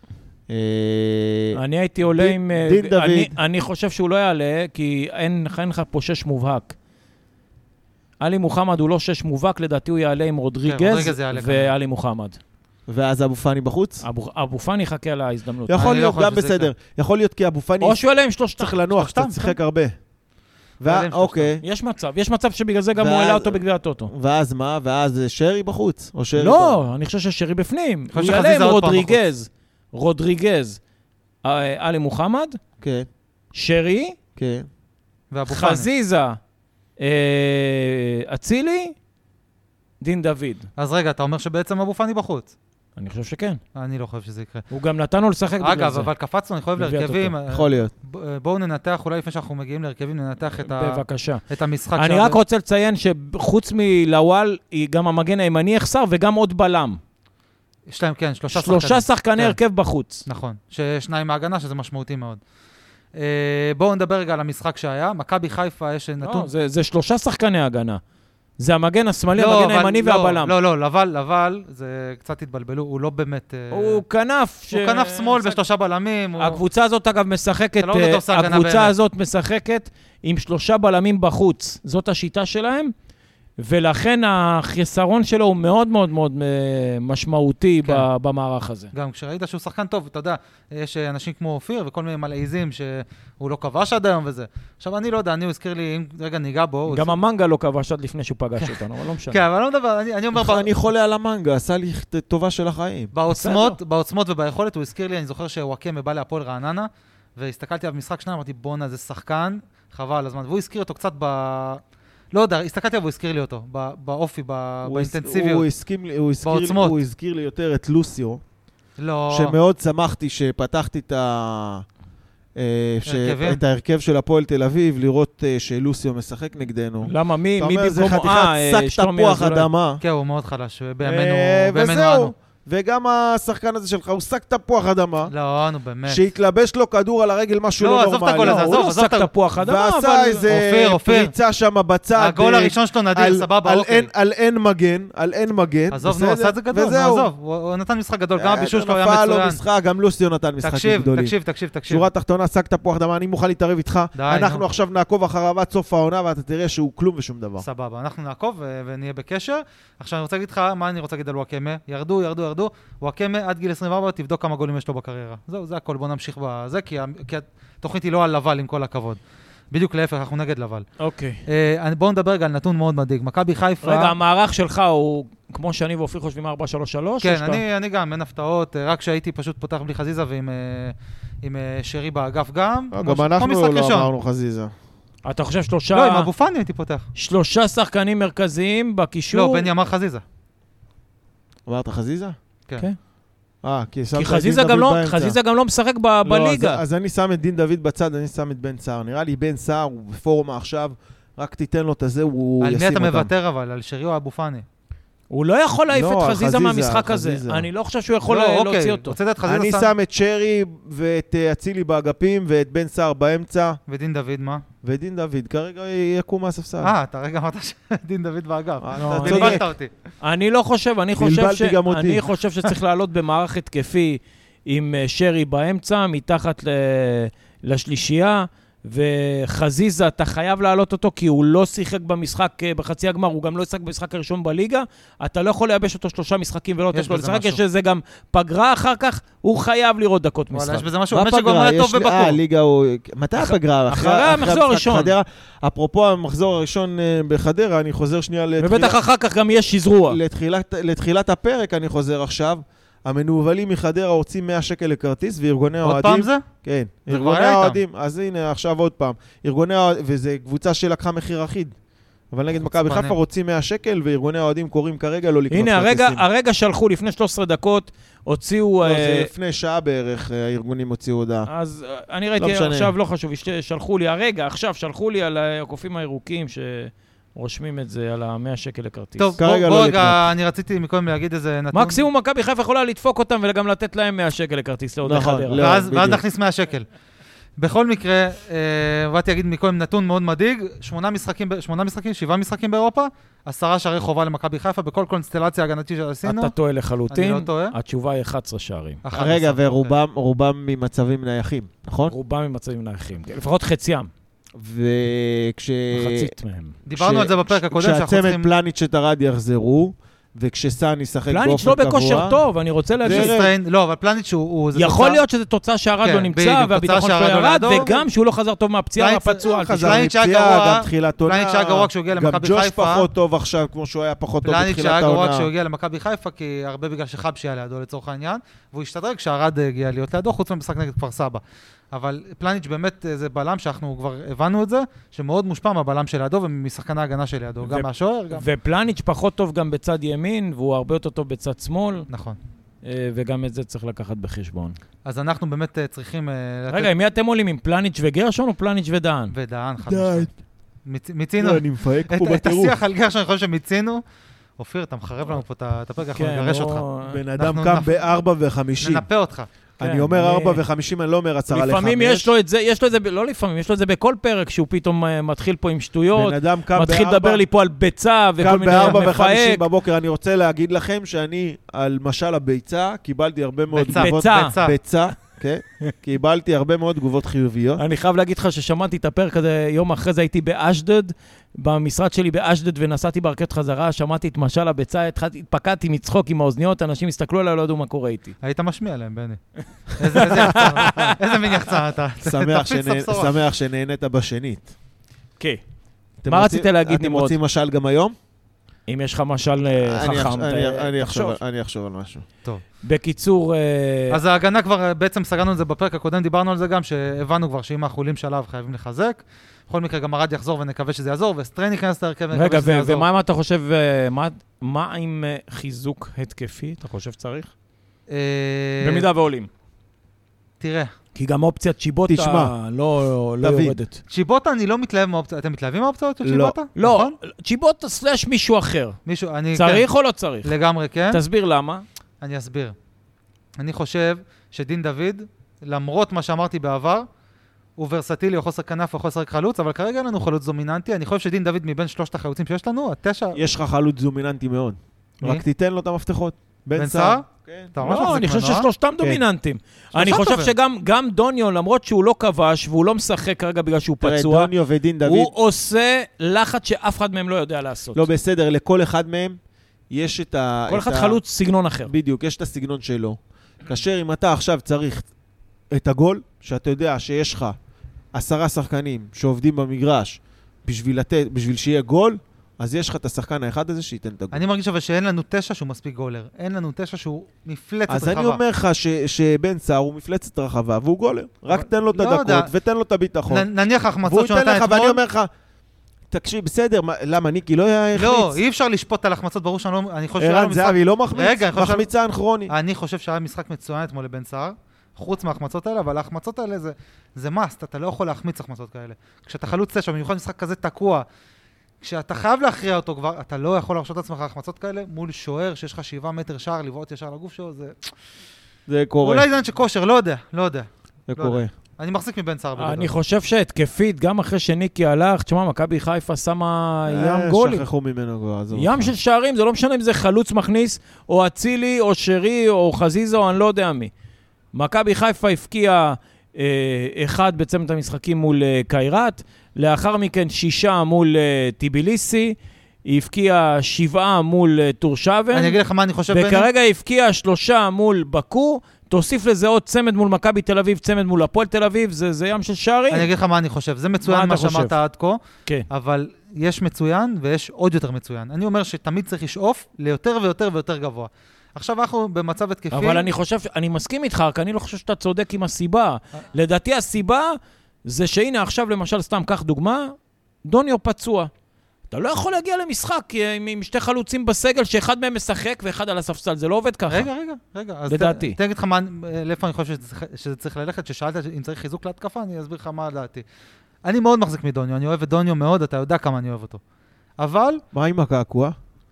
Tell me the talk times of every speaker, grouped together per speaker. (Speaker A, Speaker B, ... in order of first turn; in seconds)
Speaker A: 0.5-3.4, 12.9-14.1, 15.7-18.0, 18.6-19.9, 20.8-21.6, 23.0-26.8, 32.8-33.1, 34.4-34.7, 47.5-47.9, 100.3-103.1, 114.9-118.4, 119.3-121.8, 122.6-130.0, 131.0-135.3, 136.1-138.8, 139.6-147.3, 148.4-151.3, 151.9-157.7, 182.9-184.7, 191.7-192.4, 193.6-195.4, 196.2-203.3, 205.9-207.7, 209.4-213.8, 214.8-216.9, 218.8-219.6, 221.2-222.2, 241.1-249.0, 250.1-261.7, 262.3-266.2, 268.8-271.5, 272.4-272.9, 279.4-280.3, 285.0-286.2, 299.1-302.1, 304.6-306.3, 306.9-312.4, 313.0-313.5, 319.4-325.5, 349.9-350.3, 351.4-352.8, 357.1-359.1, 359.8-362.3, 366.1-367.4, 368.4-377.8, 392.2-394.7, 396.2-398.1, 399.8-402.2, 422.1-422.5, 423.4-423.8, 426.2-426.6, 443.4-447.8, 454.0-455.3, 457.9-459.4, 459.9-461.2, 461.9-465.1, 465.7-467.6, 468.1-474.4, 477.9-483.5, 484.0-485.3, 486.1-488.4, 490.2-492.5, 508.7-509.3, 511.1-511.5, 516.9-518.9, 577.7-578.5
Speaker B: 1.5-6.8, 8.2-12.4, 14.0-15.9, 17.8-18.8, 21.6-24.1, 26.4-30.8, 31.4-32.6, 33.5-34.2, 35.5-36.4, 37.0-39.0, 40.0-40.7, 43.0-43.6, 44.7-46.1, 46.8-47.4, 50.6-51.4, 52.0-57.0, 58.5-60.2, 66.2-68.0, 68.6-70.5, 73.7-75.6, 76.4-82.9, 83.6-88.9, 96.9-99.4, 103.3-103.8, 127.0-129.7, 138.4-140.4, 171.0-171.4, 173.8-177.6, 185.2-186.3, 187.2-189.7, 194.1-196.8, 205.3-209.2, 219.0-219.6, 220.2-240.9, 243.4-245.1, 248.6-250.2, 265.5-269.3, 271.5-279.3, 281.7-285.7, 296.2-299.0, 302.1-304.1, 305.9-306.8, 311.3-313.4, 314.8-320.1, 337.6-342.1, 342.8-344.8, 346.7-349.3, 356.1-357.2, 359.8-360.6, 361.5-369.7, 373.9-374.5, 377.8-388.4, 390.1-391.2, 396.3-397.4, 398.9-401.4, 402.8-404.2, 412.3-417.5, 418.8-419.5, 421.1-424.0, 426.8-429.0, 429.6-430.5, 431.1-431.9, 447.8-454.5, 455.1-458.1, 460.7-461.9, 512.6-517.7, 518.5-523.9, 524.5-535.6, 536.1-543.1, 544.0-544.8, 552.7-561.3, 561.9-567.1, 567.9-568.4
Speaker C: 10.7-11.7, 15.8-16.7, 18.9-19.6, 20.9-21.5, 28.1-29.2, 35.3-35.9, 40.8-42.5, 43.8-44.6, 45.6-52.4, 57.9-59.6, 60.3-62.4, 63.1-66.5, 69.3-74.0, 74.7-76.6, 77.8-78.9, 88.9-97.1, 99.3-100.7, 103.1-111.8, 112.3-115.7, 116.4-117.0, 119.0-119.6, 123.1-123.6, 130.0-132.3, 135.3-136.2, 137.8-139.3, 140.5-141.3, 142.2-144.1, 145.9-149.6, 150.6-152.1, 154.2-154.6, 157.6-169.2, 169.7-170.9, 171.5-174.2, 177.2-184.1, 185.9-187.1, 189.3-190.2, 202.6-204.7, 208.3-209.9, 213.9-214.6, 216.8-219.9, 236.9-237.6, 240.5-242.4, 255.8-256.4, 257.1-257.8, 262.7-263.2, 279.2-282.0, 285.6-286.9, 287.6-296.5, 297.1-297.8, 299.0-299.9, 306.9-308.5, 313.1-315.2, 316.0-317.9, 319.0-323.1, 324.4-331.4, 331.9-338.4, 342.1-342.4, 345.1-346.9, 349.3-350.3, 350.9-354.0, 354.6-358.0, 358.8-359.5, 373.7-374.8, 388.4-389.4, 390.0-393.4, 404.1-413.1, 418.1-419.1, 420.6-420.9, 424.1-427.1, 429.1-429.9, 430.4-431.2, 432.2-432.8, 433.6-437.1, 437.8-443.4, 446.8-448.7, 449.9-450.5, 474.3-478.4, 481.5-482.5, 483.3-485.0, 487.9-491.9, 492.5-501.1, 501.8-507.8, 509.0-512.9, 535.3-536.5, 542.9-553.1, 566.9-573.2, 573.9-576.6, 577.2-577.6